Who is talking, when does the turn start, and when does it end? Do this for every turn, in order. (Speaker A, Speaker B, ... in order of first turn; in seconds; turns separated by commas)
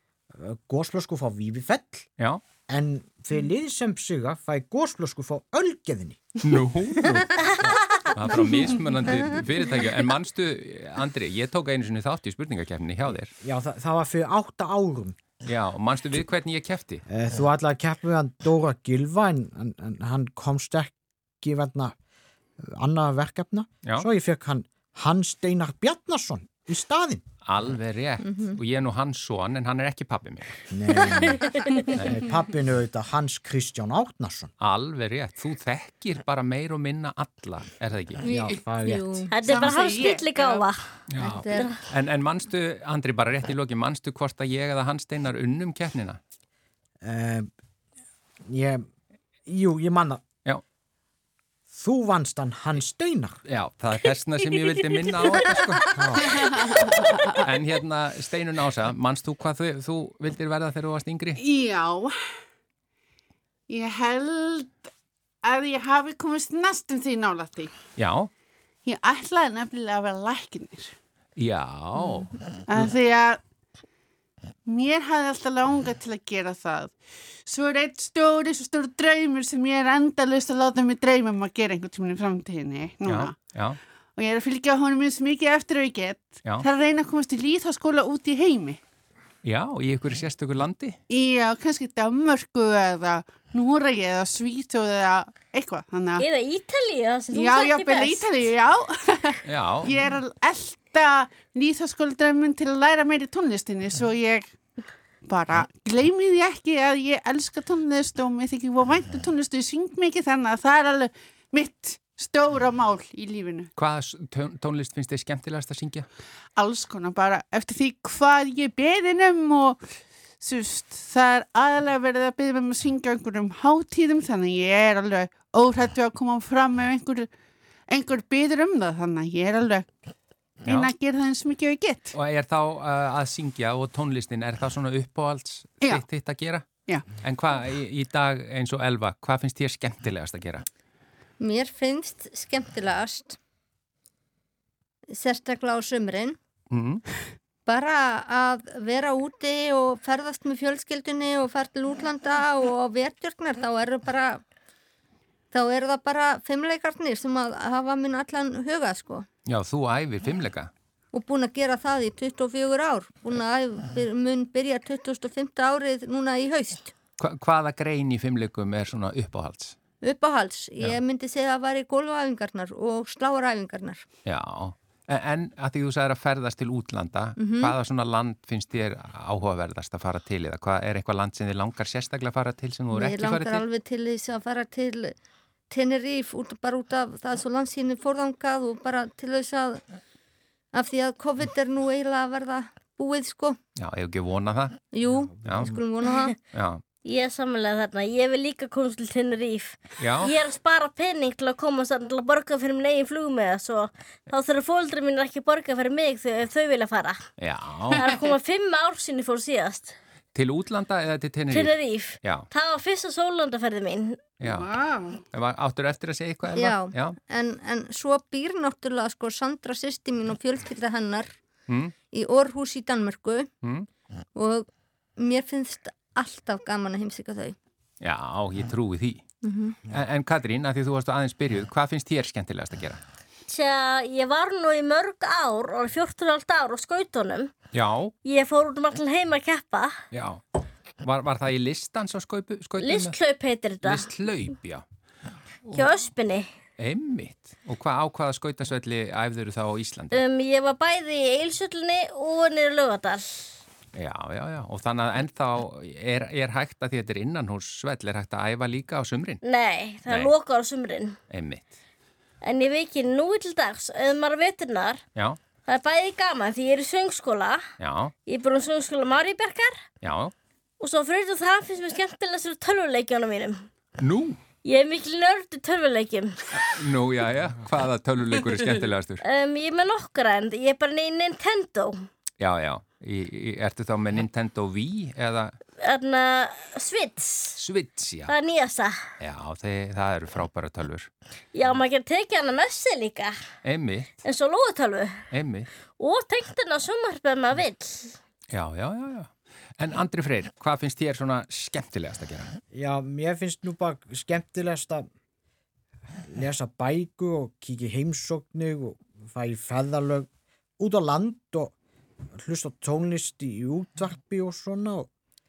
Speaker A: 0.3-2.0, Speaker A: 2.7-6.3, Speaker B: 6.4-7.5, Speaker B: 8.1-13.3, Speaker A: 13.4-15.2, Speaker B: 15.4-17.0, Speaker A: 17.1-21.9, Speaker A: 22.6-27.2, Speaker B: 27.4-30.6, Speaker C: 28.3-28.6, Speaker A: 30.7-34.5, Speaker B: 34.6-38.2, Speaker A: 38.2-39.3, Speaker C: 38.2-39.3, Speaker D: 39.3-40.9, Speaker E: 39.4-40.7, Speaker B: 41.1-46.2, Speaker C: 41.2-41.7, Speaker D: 41.5-41.8, Speaker A: 47.0-47.5, Speaker A: 48.4-48.9, Speaker A: 49.5-50.2, Speaker A: 51.7-53.4, Speaker B: 53.5-56.5, Speaker D: 55.0-56.0, Speaker A: 55.9-56.3, Speaker E: 56.3-57.4, Speaker B: 57.4-61.4, Speaker E: 61.4-62.1, Speaker E: 63.7-64.8, Speaker E: 65.4-67.7, Speaker B: 68.0-68.3, Speaker E: 68.8-70.9, Speaker B: 71.4-72.9, Speaker E: 72.7-73.4, Speaker E: 74.7-83.4, Speaker B: 83.0-83.8, Speaker E: 84.2-88.8, Speaker B: 89.4-91.0, Speaker E: 91.1-96.2, Speaker D: 96.2-98.2, Speaker E: 97.3-104.5, Speaker B: 99.4-99.9, Speaker E: 105.2-113.7, Speaker B: 113.8-116.1, Speaker E: 116.5-119.8, Speaker E: 120.4-127.3, Speaker E: 127.9-129.9, Speaker E: 130.6-132.1, Speaker B: 130.7-130.9, Speaker B: 132.1-136.7, Speaker B: 137.2-140.6, Speaker C: 141.4-143.4, Speaker C: 145.1-146.4, Speaker B: 146.7-147.0, Speaker C: 147.7-154.4, Speaker C: 155.5-159.3, Speaker B: 159.4-160.7, Speaker C: 161.1-166.9, Speaker B: 167.2-169.8, Speaker C: 170.0-174.0, Speaker B: 174.2-183.6, Speaker C: 177.4-177.7, Speaker C: 182.9-185.1, Speaker C: 185.7-189.8, Speaker C: 190.7-193.6, Speaker B: 193.8-194.8, Speaker C: 194.9-196.3, Speaker A: 195.1-195.8, Speaker B: 195.4-195.7, Speaker B: 196.5-196.8, Speaker D: 197.0-207.2, Speaker B: 200.0-200.3, Speaker B: 207.4-208.0, Speaker D: 207.9-209.9, Speaker B: 210.3-212.5, Speaker D: 211.5-214.2, Speaker B: 214.4-214.7, Speaker E: 214.4-215.2, Speaker B: 215.3-217.2, Speaker C: 216.6-221.3, Speaker B: 221.7-221.9, Speaker C: 222.1-223.5, Speaker B: 223.6-223.9, Speaker C: 224.3-227.6, Speaker B: 228.0-229.2, Speaker C: 229.4-229.8, Speaker B: 229.9-233.0, Speaker D: 233.5-237.5, Speaker B: 237.7-238.1, Speaker D: 238.2-240.0, Speaker B: 240.1-240.4, Speaker B: 241.0-243.1, Speaker D: 242.8-244.1, Speaker B: 243.8-244.8, Speaker D: 245.7-246.5, Speaker B: 246.8-250.2, Speaker D: 250.1-253.5, Speaker B: 253.9-259.4, Speaker D: 259.4-261.2, Speaker B: 260.1-260.3, Speaker B: 261.3-261.8, Speaker D: 262.4-265.0, Speaker D: 265.7-267.6, Speaker B: 267.8-268.1, Speaker D: 268.2-269.8, Speaker B: 270.0-270.3, Speaker D: 270.8-273.6, Speaker B: 274.0-274.4, Speaker D: 274.6-276.4, Speaker B: 276.6-279.2, Speaker D: 279.2-282.0, Speaker B: 282.4-285.5, Speaker D: 285.8-287.6, Speaker B: 287.6-288.3, Speaker D: 288.3-289.0, Speaker B: 289.2-291.1, Speaker D: 291.5-293.3, Speaker B: 293.6-294.1, Speaker D: 294.2-295.2, Speaker B: 295.3-295.7, Speaker D: 296.0-298.1, Speaker B: 298.5-302.5, Speaker A: 302.7-305.1, Speaker A: 306.2-310.3, Speaker A: 310.8-311.7, Speaker A: 312.3-315.1